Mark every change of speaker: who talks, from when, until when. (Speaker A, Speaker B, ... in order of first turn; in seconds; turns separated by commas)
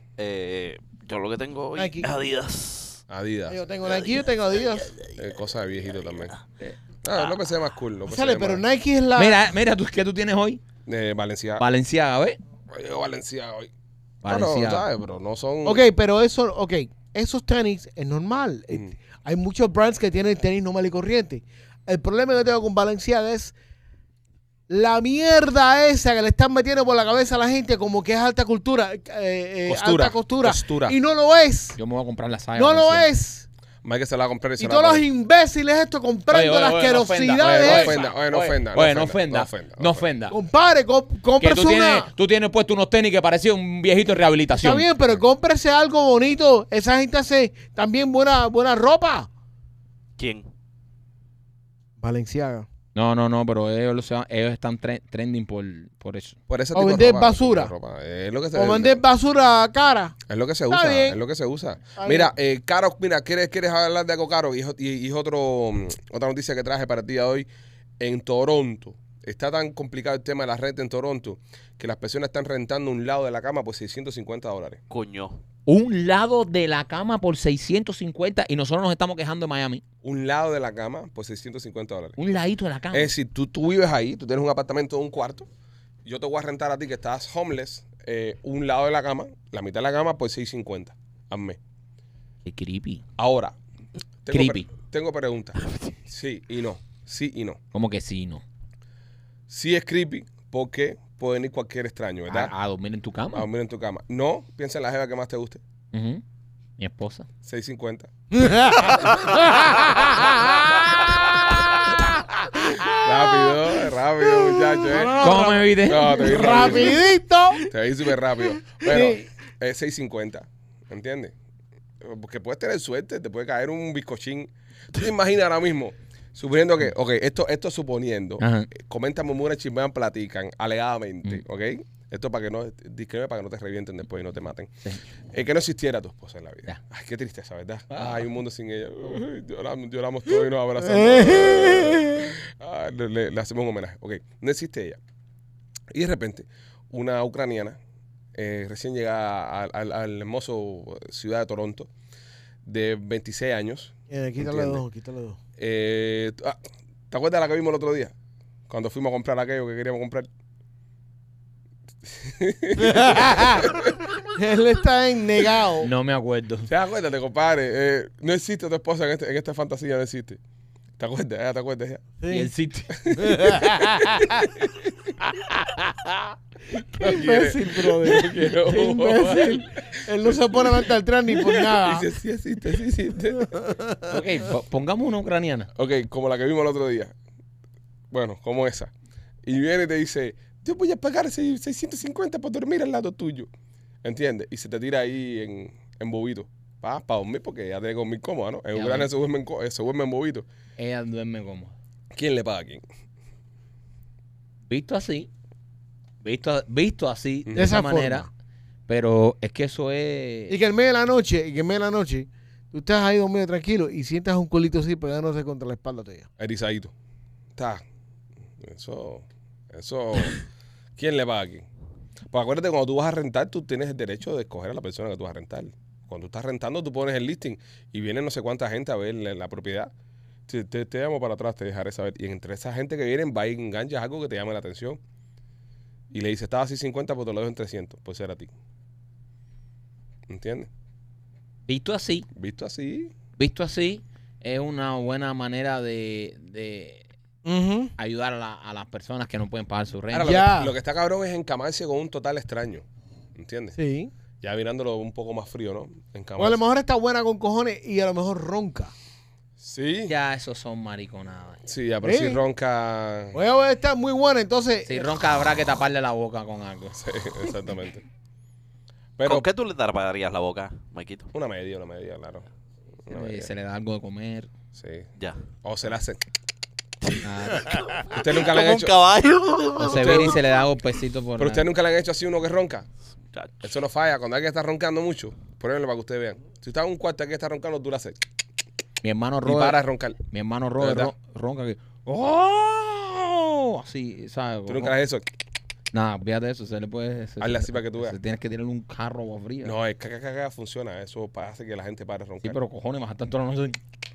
Speaker A: 0.2-3.0, Speaker B: 1.8-2.1, Speaker C: 3.1-3.6, Speaker B: 3.5-4.9, Speaker C: 5.1-6.3, Speaker C: 7.0-8.6, Speaker B: 8.1-9.4, Speaker D: 9.1-10.6, Speaker C: 10.8-11.6, Speaker D: 11.6-12.4, Speaker C: 12.7-13.7, Speaker D: 14.2-14.8, Speaker C: 14.2-15.8, Speaker B: 15.6-23.5, Speaker B: 24.7-31.8, Speaker C: 29.7-30.9, Speaker D: 31.8-33.1, Speaker B: 32.5-33.5, Speaker C: 33.8-35.0, Speaker B: 34.6-37.9, Speaker D: 36.3-40.4, Speaker C: 37.4-40.0, Speaker B: 40.3-42.1, Speaker D: 41.4-44.9, Speaker B: 44.5-49.3, Speaker A: 50.2-50.5, Speaker B: 52.0-52.7, Speaker D: 52.9-56.4, Speaker C: 56.5-59.0, Speaker B: 56.7-57.7, Speaker B: 58.5-60.2, Speaker C: 60.3-67.5, Speaker B: 60.7-61.2, Speaker B: 62.0-62.3, Speaker C: 68.0-74.8, Speaker A: 74.9-75.4, Speaker D: 75.7-79.8, Speaker C: 80.0-82.2, Speaker D: 82.2-83.1, Speaker C: 82.9-85.5, Speaker C: 86.0-91.6, Speaker D: 92.4-93.0, Speaker C: 93.2-93.5, Speaker C: 94.2-97.6, Speaker D: 94.3-94.7, Speaker D: 97.7-98.4, Speaker C: 99.5-102.5, Speaker D: 102.3-103.5, Speaker C: 103.3-105.6, Speaker D: 105.9-106.2, Speaker D: 106.8-107.3, Speaker C: 107.4-108.1, Speaker B: 108.3-113.6, Speaker C: 112.7-117.0, Speaker B: 114.5-117.7, Speaker D: 115.2-117.0, Speaker C: 117.7-121.3, Speaker B: 118.8-119.2, Speaker C: 122.0-134.7, Speaker D: 128.4-128.7, Speaker C: 135.3-145.0, Speaker D: 137.9-138.3, Speaker B: 140.8-142.3, Speaker C: 145.9-147.8, Speaker C: 148.3-151.9, Speaker C: 152.6-154.8, Speaker B: 154.1-155.4, Speaker C: 155.6-156.6, Speaker C: 157.1-158.1, Speaker C: 158.7-160.3, Speaker C: 162.1-163.9, Speaker B: 162.8-163.8, Speaker B: 164.3-165.9, Speaker D: 165.8-166.7, Speaker C: 166.7-170.4, Speaker C: 171.0-172.0, Speaker B: 172.2-172.5, Speaker D: 172.3-173.6, Speaker B: 173.2-174.5, Speaker C: 177.0-180.8, Speaker B: 177.0-182.1, Speaker C: 181.4-183.5, Speaker B: 183.4-184.1, Speaker D: 184.1-185.7, Speaker C: 185.7-187.1, Speaker C: 188.1-188.9, Speaker C: 189.4-193.5, Speaker C: 194.0-200.4, Speaker D: 198.7-199.1, Speaker D: 200.8-201.7, Speaker C: 202.1-202.8, Speaker D: 204.7-205.3, Speaker D: 206.2-208.3, Speaker C: 207.4-207.8, Speaker B: 207.5-208.3, Speaker D: 208.9-210.6, Speaker B: 210.5-216.3, Speaker C: 216.4-216.9, Speaker C: 217.6-217.8, Speaker C: 218.6-220.4, Speaker C: 221.0-221.7, Speaker C: 222.3-229.9, Speaker C: 230.5-235.0, Speaker C: 236.1-238.5, Speaker C: 240.3-240.7, Speaker D: 241.7-242.3, Speaker C: 242.3-243.1, Speaker D: 243.4-247.0, Speaker B: 247.4-247.9, Speaker D: 248.0-250.4, Speaker C: 250.1-252.8, Speaker B: 250.2-250.7, Speaker C: 253.3-253.7, Speaker B: 253.7-254.1, Speaker C: 254.4-256.6, Speaker B: 256.4-258.9, Speaker C: 259.6-260.1, Speaker D: 260.1-261.7, Speaker C: 261.7-263.4, Speaker B: 262.0-262.4, Speaker B: 263.3-265.1, Speaker D: 264.9-267.0, Speaker C: 266.9-268.0, Speaker C: 269.2-269.4, Speaker A: 269.2-271.3, Speaker C: 271.3-272.4, Speaker C: 273.0-273.5, Speaker D: 273.1-274.5, Speaker C: 274.7-275.1, Speaker C: 275.6-276.2, Speaker A: 277.0-280.3, Speaker D: 277.2-277.8, Speaker C: 278.1-278.9, Speaker D: 279.8-281.6, Speaker C: 279.9-280.4, Speaker C: 281.4-282.9, Speaker A: 283.3-283.6, Speaker C: 283.6-288.2, Speaker D: 289.0-294.9, Speaker C: 289.4-290.2, Speaker C: 290.8-291.1, Speaker C: 294.7-295.2, Speaker D: 295.9-299.7, Speaker C: 297.4-298.2, Speaker C: 299.6-302.6, Speaker D: 302.4-303.8